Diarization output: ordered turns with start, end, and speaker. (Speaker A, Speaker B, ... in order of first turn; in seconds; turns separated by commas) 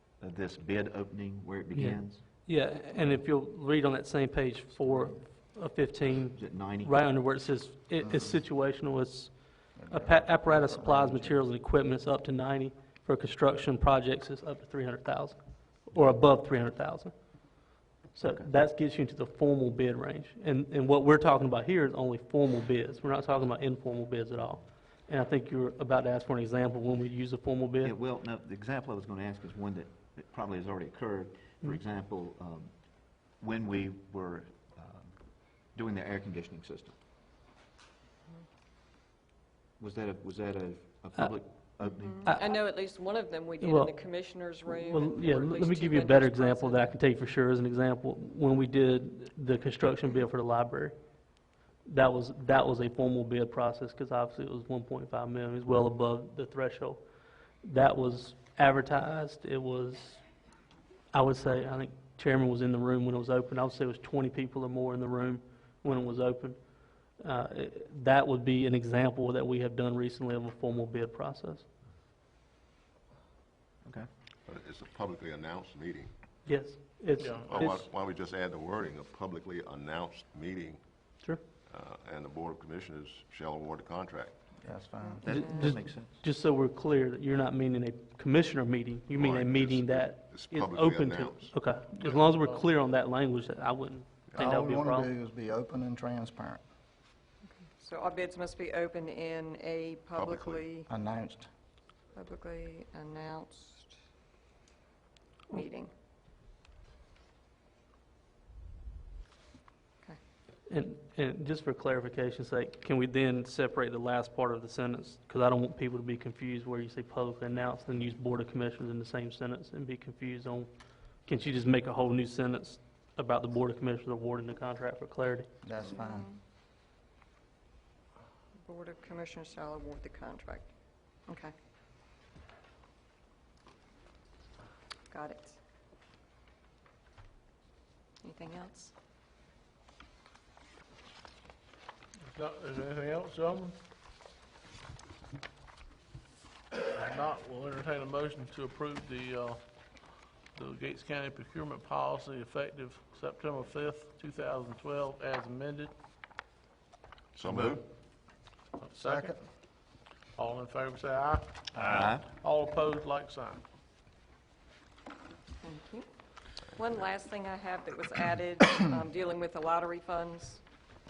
Speaker A: 0.2-2.2, Speaker B: 1.7-27.9, Speaker A: 6.3-6.9, Speaker C: 9.7-11.4, Speaker A: 27.8-36.9, Speaker A: 39.8-42.3, Speaker D: 41.8-46.9, Speaker B: 43.6-43.9, Speaker B: 44.7-51.0, Speaker B: 51.9-57.0, Speaker B: 57.6-60.2, Speaker B: 61.1-71.7, Speaker E: 74.5-76.1, Speaker B: 76.5-77.8, Speaker F: 77.2-77.8, Speaker E: 77.4-84.3, Speaker C: 84.6-85.3, Speaker D: 85.0-85.7, Speaker A: 85.2-86.2, Speaker B: 85.2-95.1, Speaker E: 89.1-91.5, Speaker F: 92.0-92.6, Speaker C: 94.4-96.6, Speaker D: 97.6-100.9, Speaker E: 100.1-100.7, Speaker C: 100.9-101.5, Speaker D: 102.1-103.9, Speaker D: 105.5-105.9, Speaker B: 110.7-125.5, Speaker C: 125.6-126.3, Speaker D: 125.8-126.4, Speaker D: 128.6-130.7, Speaker D: 131.3-131.5, Speaker D: 135.1-135.6, Speaker D: 138.2-138.9, Speaker F: 142.2-143.8, Speaker F: 146.7-149.6, Speaker F: 150.5-155.9, Speaker E: 157.3-157.8, Speaker F: 158.8-159.4, Speaker C: 159.0-159.4, Speaker F: 160.3-163.6, Speaker A: 161.8-162.2, Speaker D: 165.6-166.1, Speaker D: 166.7-170.6